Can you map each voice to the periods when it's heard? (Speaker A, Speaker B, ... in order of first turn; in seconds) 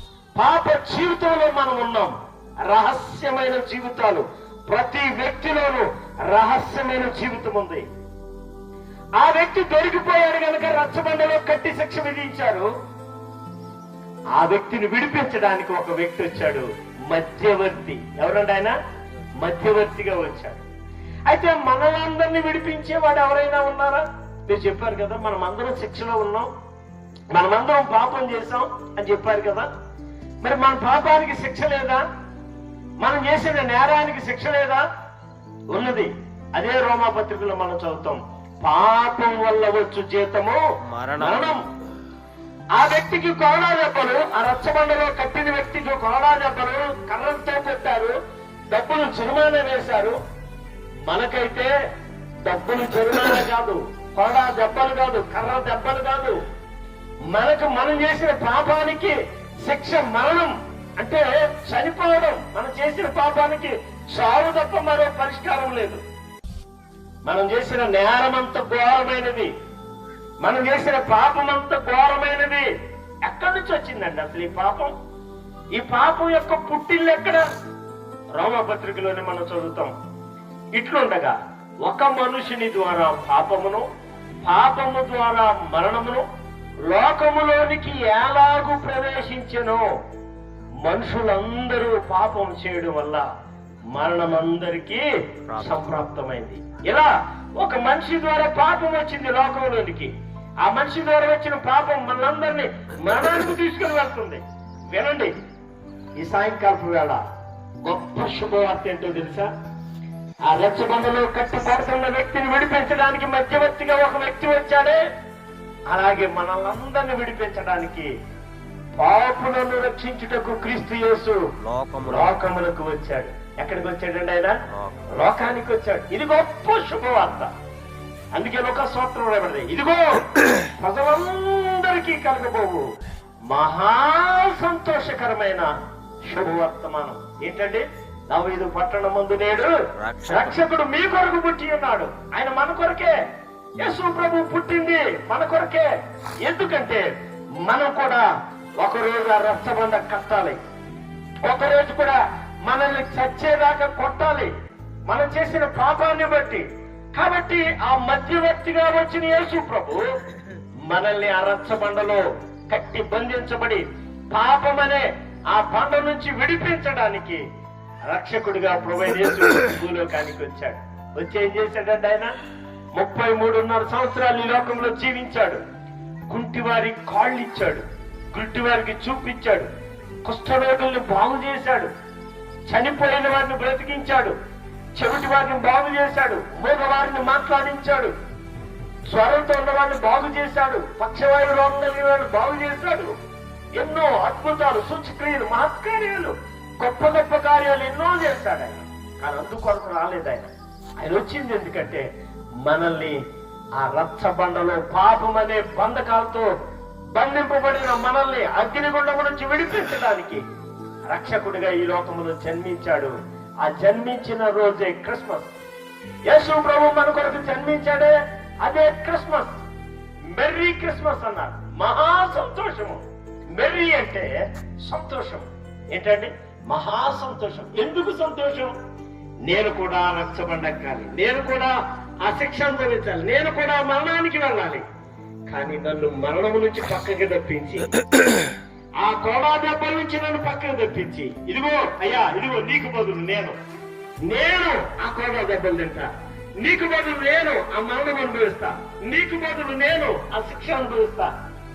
Speaker A: 0.3-2.1, 2.7-7.8, 9.2-12.7, 14.3-18.8, 19.4-20.6, 21.3-26.5, 27.3-29.7, 30.4-32.0, 33.0-34.8, 35.7-40.6, 41.1-41.6, 42.8-48.1, 48.7-50.2, 51.0-51.7, 52.4-56.4, 57.3-66.0, 67.2-69.5, 70.4-72.7, 73.2-74.9, 75.7-77.4, 78.3-79.9, 80.7-83.8, 84.4-86.2, 86.8-89.8, 90.8-93.2, 93.9-100.1, 100.6-105.3, 106.2-107.2, 107.8-109.5, 110.5-115.0, 115.9-118.1, 119.0-121.4, 122.0-124.6, 125.1-127.5, 128.3-132.8, 133.5-135.7, 136.3-139.7, 140.3-143.1, 143.8-145.9, 146.4-147.1, 147.6-148.2, 148.8-150.6, 151.4-154.5, 155.1-160.0, 160.9-167.4, 168.1-172.3, 172.9-175.6, 176.3-179.7, 180.2-181.9, 182.7-184.3, 184.9-188.1, 189.1-193.1, 193.8-202.1, 202.6-203.2, 203.8-206.5, 207.1-210.4, 211.1-215.5, 216.3-219.6, 220.3-224.3, 224.8-228.7, 229.4-234.8, 235.5-237.9, 239.0-243.6, 244.2-246.1, 246.6-251.3
Speaker B: 40.9-41.5, 95.5-95.9, 121.6-122.3, 124.7-125.1, 140.0-140.6